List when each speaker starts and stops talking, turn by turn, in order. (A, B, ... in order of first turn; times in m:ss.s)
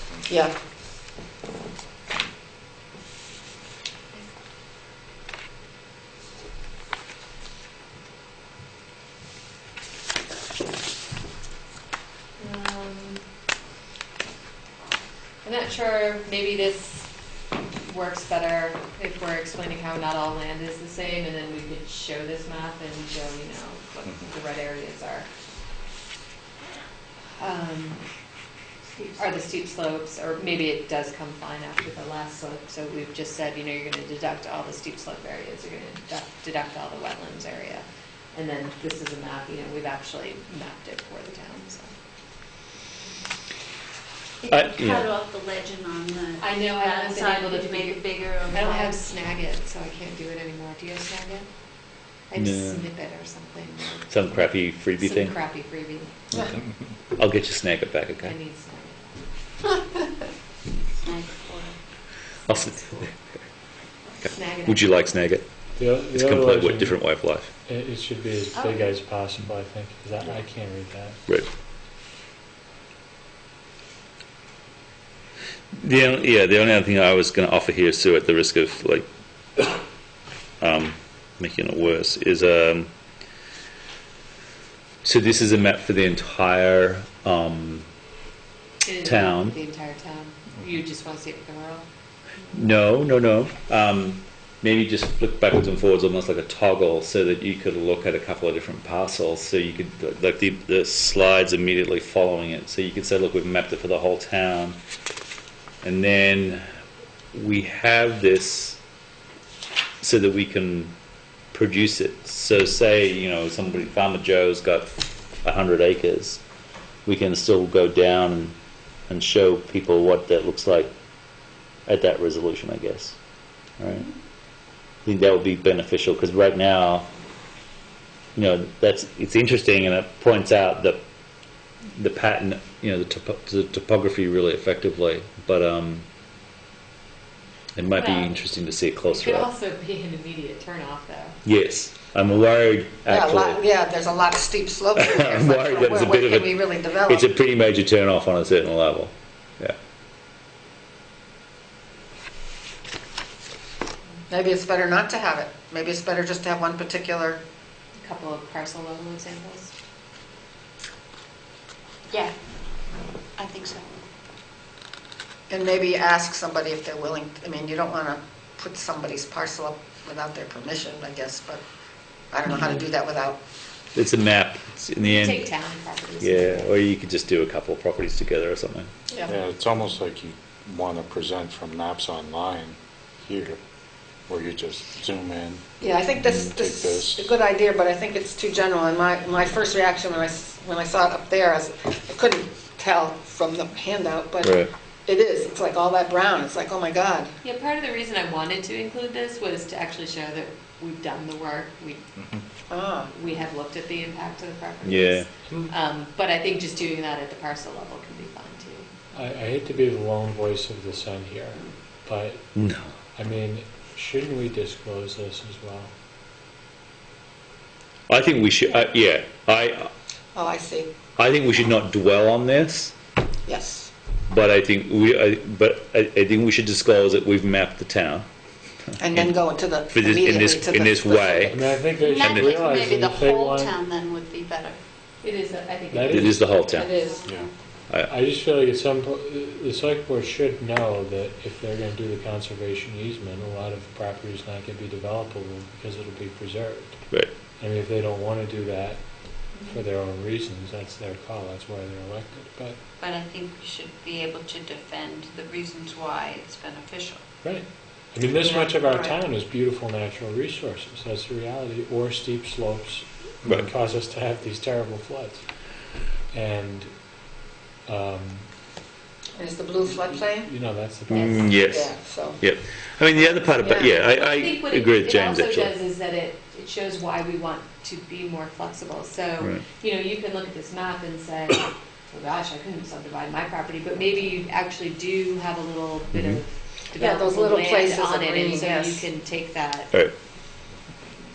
0:12.4-0:13.2 A
0:15.4-0:17.1 A
0:17.8-0:25.3 A
0:24.0-0:24.3 B
0:27.4-0:28.0 A
0:29.0-0:41.9 A
0:44.4-0:48.8 C
0:44.5-0:45.1 D
0:46.4-0:51.5 A
0:52.3-0:54.1 A
0:52.4-0:52.9 D
0:54.1-0:55.4 D
0:55.0-0:56.2 A
0:57.2-0:58.3 D
0:58.2-0:59.2 A
1:01.0-1:01.8 C
1:02.5-1:03.4 D
1:04.2-1:05.4 D
1:04.3-1:05.0 A
1:05.8-1:11.2 E
1:06.0-1:07.5 D
1:08.6-1:08.8 C
1:15.7-1:19.1 D
1:20.6-1:22.9 D
1:25.0-1:27.8 D
1:28.8-1:31.8 A
1:29.0-1:29.6 D
1:32.5-1:44.8 D
1:45.8-1:46.6 D
1:47.3-1:48.8 D
1:50.0-1:51.0 D
1:51.5-1:54.9 D
1:55.4-1:56.4 D
1:57.1-1:58.6 D
1:59.1-2:00.9 D
2:01.9-2:03.2 D
2:03.8-2:04.1 D
2:05.0-2:07.1 D
2:08.4-2:11.0 D
2:12.0-2:16.1 D
2:17.8-2:19.5 D
2:18.0-2:18.4 A
2:19.1-2:21.4 A
2:21.4-2:23.6 D
2:23.1-2:27.3 F
2:25.0-2:29.8 D
2:34.3-2:37.4 F
2:38.0-2:39.7 A
2:43.4-2:43.8 C
2:45.5-2:51.6 F
2:52.3-2:53.4 F
2:54.0-2:55.5 D
2:55.0-2:56.7 A
2:56.2-2:58.9 D
2:59.3-3:03.6 B
3:04.3-3:05.6 B
3:05.8-3:17.3 F
3:06.2-3:07.3 B
3:14.4-3:14.7 D
3:17.4-3:22.0 A
3:22.7-3:23.1 F
3:23.1-3:28.9 A
3:24.8-3:25.3 D
3:29.1-3:32.5 E
3:32.5-3:32.9 D
3:33.2-3:35.9 E
3:38.1-3:39.9 D
3:40.4-3:40.9 F
3:41.2-3:42.9 D
3:43.5-3:43.9 F
3:44.3-3:48.3 D
3:48.9-3:49.4 D
3:49.0-3:51.8 F
3:49.9-3:51.6 D
3:51.5-3:53.8 E
3:52.0-3:54.8 C
3:55.2-3:57.3 A
3:55.9-3:56.8 E
3:56.1-3:56.9 D
3:56.8-3:57.2 F
3:58.0-4:12.8 E
4:13.0-4:17.2 C
4:17.4-4:27.3 E
4:18.4-4:19.1 C
4:27.8-4:28.5 E
4:29.4-4:30.5 F
4:29.8-4:31.9 E
4:31.1-4:35.7 D
4:31.1-4:31.4 A
4:31.6-4:32.4 F
4:33.4-4:34.0 F
4:34.2-4:49.9 A
4:46.1-4:46.4 D
4:46.9-4:49.0 F